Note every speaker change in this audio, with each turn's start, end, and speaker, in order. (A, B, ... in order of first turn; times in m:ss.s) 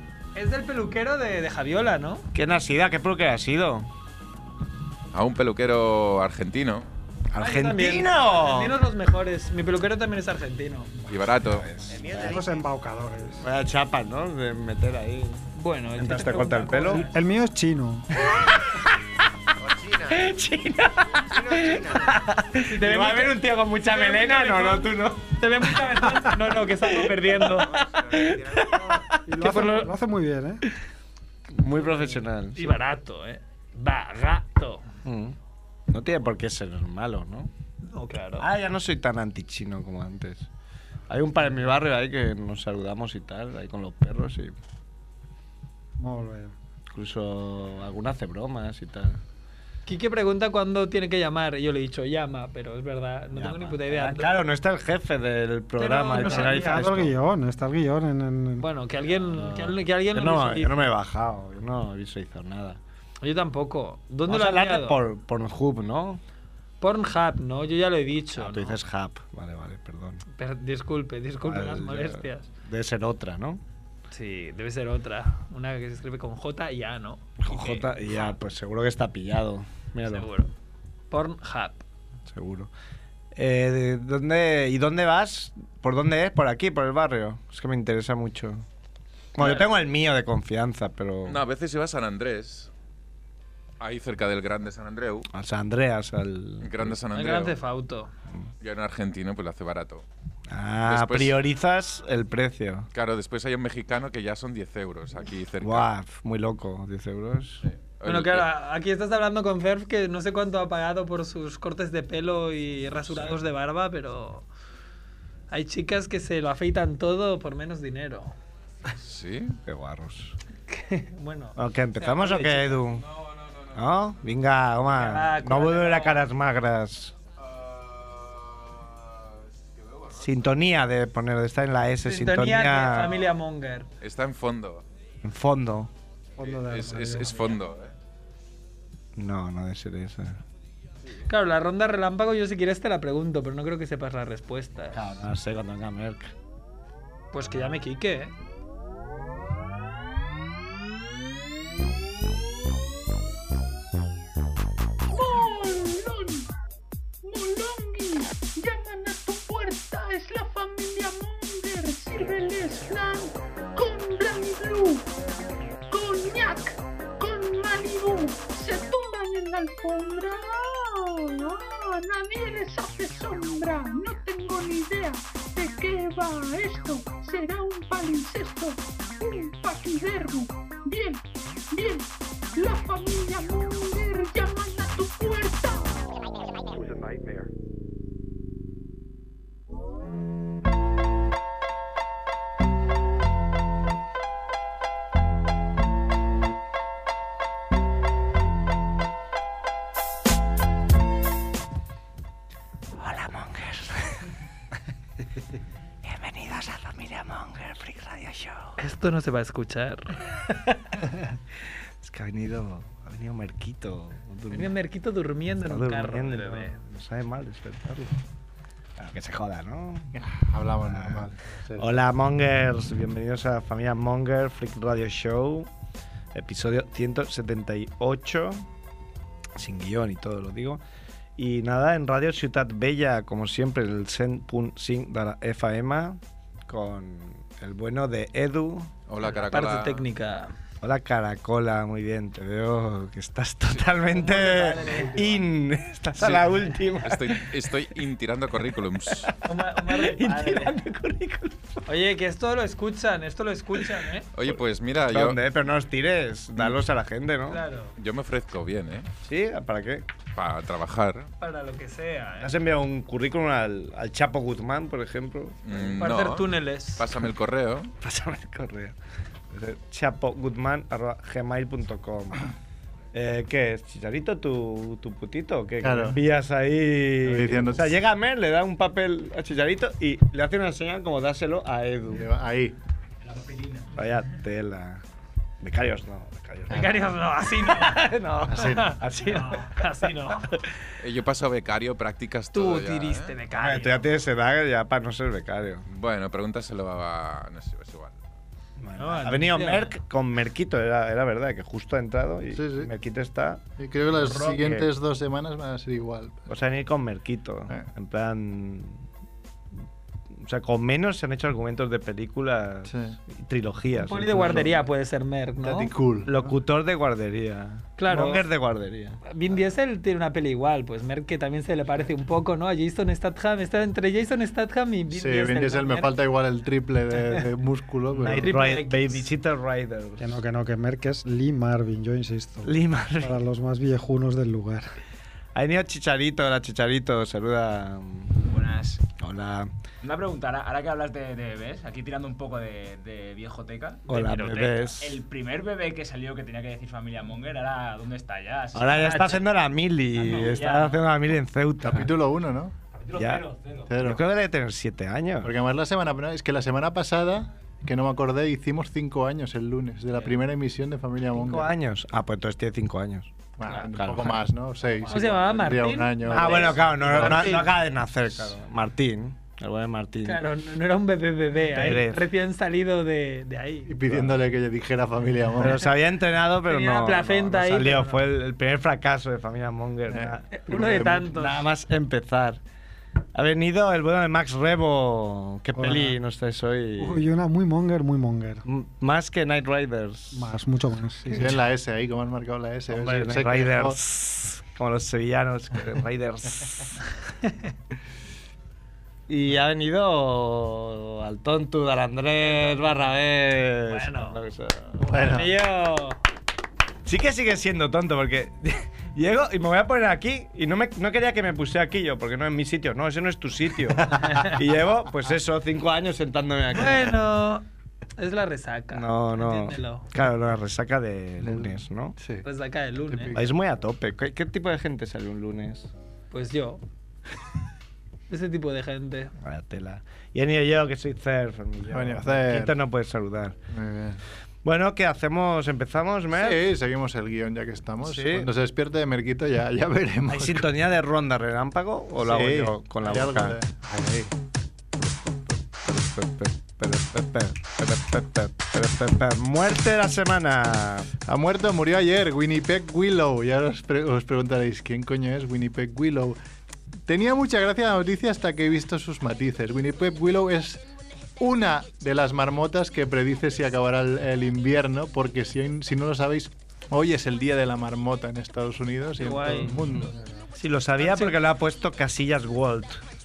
0:00.4-0:02.3 A
0:02.3-0:03.9 B
0:05.1-0:06.9 C
0:07.3-0:08.8 B
0:07.4-0:10.9 A
0:11.1-0:11.7 C
0:11.4-0:12.6 B
0:12.2-0:13.4 D
0:13.4-0:15.4 B
0:15.6-0:17.1 A
0:16.0-0:17.0 B
0:16.9-0:18.1 D
0:18.2-0:18.7 B
0:19.6-0:26.2 B
0:22.6-0:29.9 A
0:26.9-0:28.8 B
0:29.2-0:30.6 D
0:31.5-0:32.7 B
0:32.5-0:34.8 A
0:35.0-0:35.4 B
0:35.9-0:37.5 B
0:37.8-0:38.5 A
0:38.4-0:40.5 B
0:41.1-0:44.5 B
0:46.0-0:46.5 D
0:46.9-0:49.2 B
0:49.9-0:54.3 A
0:53.3-0:57.1 B
0:55.8-0:56.9 A
0:56.2-0:58.6 D
0:58.6-1:00.7 A
0:59.3-1:02.8 B
1:03.2-1:05.0 A
1:04.3-1:06.2 B
1:06.8-1:08.8 A
1:08.4-1:10.2 B
1:10.4-1:12.5 A
1:11.4-1:13.6 B
1:14.1-1:18.4 A
1:17.4-1:20.2 B
1:20.0-1:20.5 A
1:21.1-1:21.8 A
1:22.3-1:22.7 B
1:23.3-1:28.6 B
1:29.3-1:31.4 B
1:29.4-1:29.7 A
1:31.2-1:32.7 C
1:33.8-1:35.3 C
1:35.3-1:37.0 B
1:36.6-1:37.6 C
1:37.1-1:38.1 A
1:38.6-1:40.0 C
1:40.5-1:42.9 B
1:40.9-1:41.4 C
1:42.9-1:45.9 C
1:45.6-1:47.6 B
1:47.6-1:48.5 C
1:48.0-1:54.4 A
1:55.5-1:58.3 A
1:59.0-1:59.6 C
1:59.6-2:00.3 B
2:00.7-2:02.8 A
2:01.6-2:03.0 B
2:02.9-2:03.9 C
2:03.7-2:07.2 B
2:04.8-2:06.2 A
2:07.4-2:10.5 C
2:10.2-2:13.2 B
2:12.0-2:13.9 A
2:14.0-2:14.8 C
2:15.2-2:15.9 B
2:16.4-2:17.6 D
2:16.4-2:17.9 C
2:19.2-2:20.4 B
2:21.3-2:25.0 A
2:24.9-2:26.3 B
2:27.3-2:28.3 A
2:35.1-2:36.5 E
2:37.2-2:45.0 E
2:45.9-3:05.9 E
3:22.9-3:24.3 B
3:26.0-3:28.7 B
3:28.8-3:30.2 A
3:32.0-3:34.7 B
3:34.5-3:36.8 A
3:35.7-3:38.2 B
3:39.0-3:40.1 B
3:40.1-3:41.9 F
3:40.9-3:41.2 B
3:41.8-3:45.7 B
3:46.3-3:48.6 B
3:49.6-3:50.8 B
3:51.4-3:58.9 B
3:59.1-4:00.0 C
3:59.3-4:00.5 A
4:00.8-4:07.6 B
4:04.1-4:05.3 A
4:06.2-4:06.5 C
4:07.0-4:09.3 C
4:09.4-4:10.7 A
4:09.8-4:11.8 B
4:11.9-4:14.3 A
4:14.3-4:15.4 C
4:14.5-4:17.6 B
4:17.5-4:17.9 A
4:18.0-4:19.1 C
4:19.2-4:20.0 B
4:20.4-4:21.3 C
4:21.4-4:22.5 A
4:22.4-4:25.9 B
4:25.6-4:27.9 C
4:26.0-4:27.1 A
4:28.0-4:29.0 B
4:29.5-4:32.5 B
4:33.1-4:42.3 B
4:35.8-4:36.2 F
4:37.2-4:38.0 F
4:42.1-4:42.8 F
4:43.2-4:43.9 G
4:44.0-4:45.0 B
4:45.6-4:46.9 B
4:46.7-4:50.6 A
4:47.6-4:49.7 B
4:48.5-4:48.9 F
4:51.0-4:53.3 C
4:52.5-4:54.1 A
4:53.5-4:55.8 B
4:55.9-4:58.2 C
4:58.8-5:04.9 B
4:59.0-4:59.9 A
5:02.5-5:02.9 F
5:03.8-5:06.5 F
5:06.5-5:09.0 B
5:10.4-5:14.8 B
5:12.8-5:13.2 F
5:14.0-5:15.9 A
5:15.6-5:16.6 F
5:16.2-5:19.2 B
5:18.0-5:18.4 A
5:19.2-5:26.1 A
5:25.1-5:28.6 F
5:28.2-5:30.4 B
5:28.4-5:29.2 A
5:30.2-5:34.9 D
5:32.6-5:33.4 B
5:35.5-5:38.3 B
5:38.4-5:39.0 G
5:39.1-5:39.7 B
5:40.0-5:49.5 G
5:44.1-5:45.2 B
5:44.2-5:44.6 A
5:48.7-5:52.1 B
5:50.1-5:51.1 G
5:51.8-5:52.7 F
5:52.9-5:53.9 G
5:53.1-5:53.4 B
5:53.9-5:54.2 F
5:53.9-5:55.5 B
5:55.4-6:01.7 F
6:01.3-6:04.4 B
6:03.6-6:07.7 F
6:05.1-6:07.7 A
6:06.2-6:10.4 B
6:10.2-6:13.9 A
6:11.7-6:12.2 B
6:13.9-6:15.9 F
6:15.6-6:22.6 B
6:16.6-6:18.2 A
6:20.1-6:21.3 F
6:20.5-6:21.6 A
6:23.3-6:27.2 B
6:25.8-6:26.1 D
6:27.0-6:28.6 D
6:28.6-6:30.5 B
6:30.3-6:31.5 D
6:31.3-6:34.0 F
6:32.9-6:36.9 B
6:39.3-6:45.0 B
6:43.9-6:44.4 A
6:45.0-6:45.5 F
6:45.1-6:46.2 A
6:47.0-6:57.2 B
6:56.7-6:57.6 A
6:58.2-7:00.1 A
6:58.9-7:02.2 B
7:01.4-7:02.4 F
7:02.4-7:03.3 A
7:03.1-7:03.5 F
7:03.3-7:05.9 B
7:06.3-7:06.8 A
7:08.3-7:09.3 A
7:09.4-7:13.6 B
7:11.9-7:12.8 F
7:13.7-7:14.2 F
7:14.6-7:16.6 B
7:16.3-7:20.7 F
7:18.0-7:18.5 B
7:20.3-7:23.6 B
7:22.2-7:24.3 F
7:25.8-7:31.1 B
7:31.2-7:36.4 F
7:37.1-7:40.8 F
7:41.4-7:50.1 F
7:49.2-7:49.9 A
7:50.5-7:53.0 B
7:51.0-7:51.3 A